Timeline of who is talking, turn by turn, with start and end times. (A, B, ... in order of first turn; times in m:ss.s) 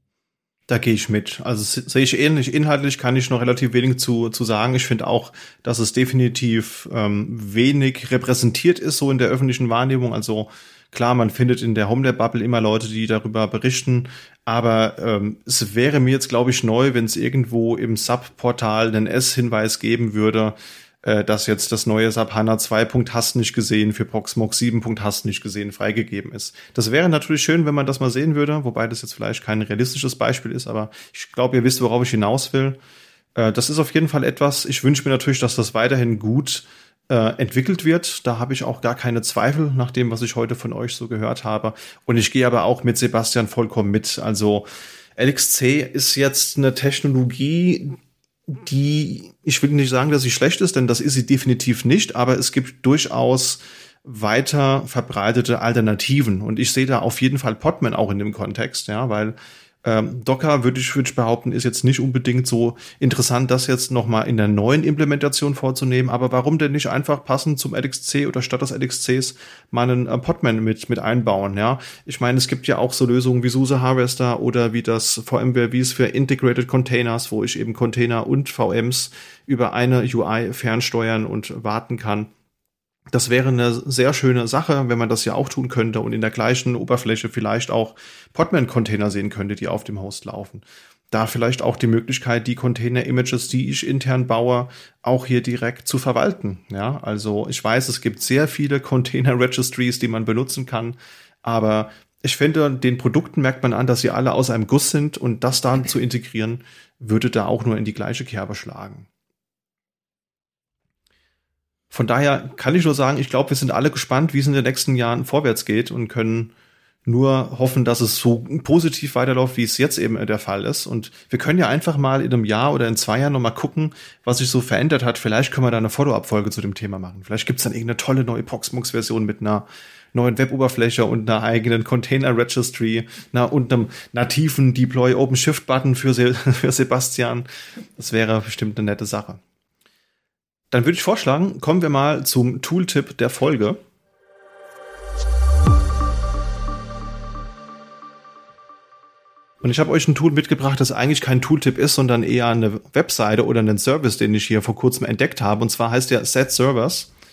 0:00.7-0:32.8 A
0:33.4-1:22.3 A
1:23.1-1:49.1 A
1:51.9-1:56.5 A
1:57.1-2:17.5 A
2:18.0-2:19.4 A
2:20.7-2:23.8 A
2:29.6-2:37.1 A